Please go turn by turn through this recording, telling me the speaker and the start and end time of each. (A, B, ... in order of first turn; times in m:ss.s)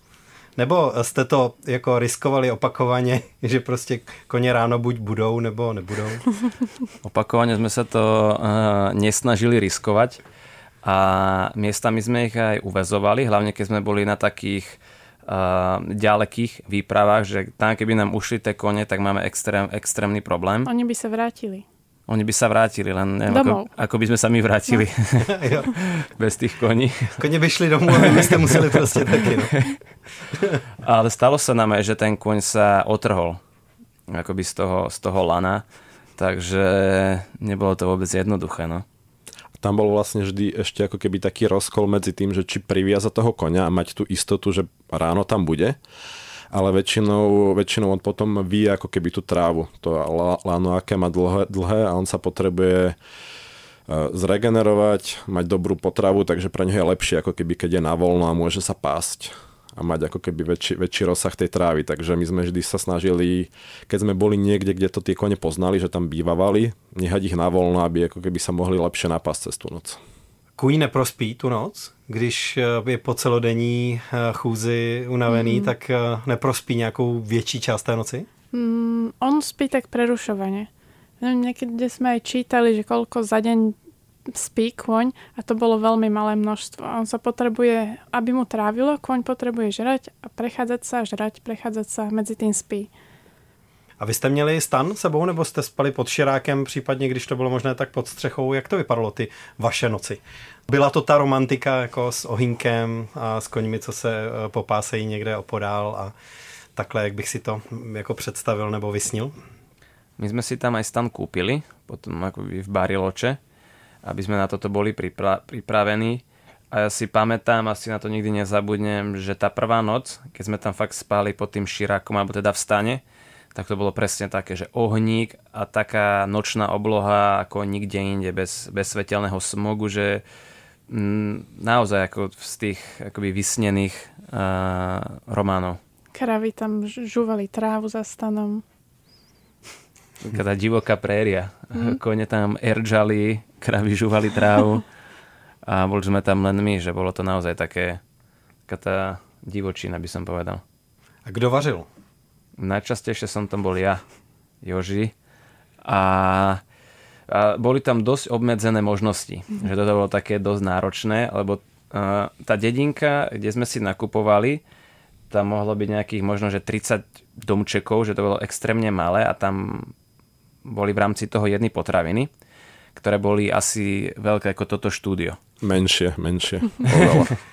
0:00.6-0:06.4 A
0:07.0-0:10.2 B
0:10.8-0:20.7 B
0:20.7-0:21.6 C
0:22.1-0:27.2 B
0:23.3-0:23.7 C
0:25.3-0:25.7 A
0:27.2-0:29.6 A
0:27.9-0:28.9 B
0:30.8-0:33.4 B
0:34.1-0:35.6 B
0:36.2-0:38.8 B
0:39.6-0:45.8 D
0:46.5-0:53.0 D
0:53.9-1:10.0 D
1:10.6-1:18.3 A
1:15.3-1:15.7 C
1:18.5-1:20.7 C
1:21.2-1:23.8 C
1:24.3-1:32.9 C
1:34.0-1:46.1 A
1:46.8-1:49.3 A
1:50.2-1:53.4 B
1:54.0-2:03.0 B
2:03.5-2:10.2 B
2:10.9-2:15.8 B
2:16.1-2:18.6 C
2:20.2-2:24.8 B
2:25.7-2:28.0 B
2:28.7-2:30.6 B
2:31.3-2:31.9 A
2:32.6-2:34.0 B
2:34.6-2:35.1 B
2:35.8-2:36.6 B
2:37.3-2:44.6 B
2:45.3-2:49.9 B
2:50.6-2:52.3 B
2:53.0-2:55.4 B
2:55.6-2:57.3 D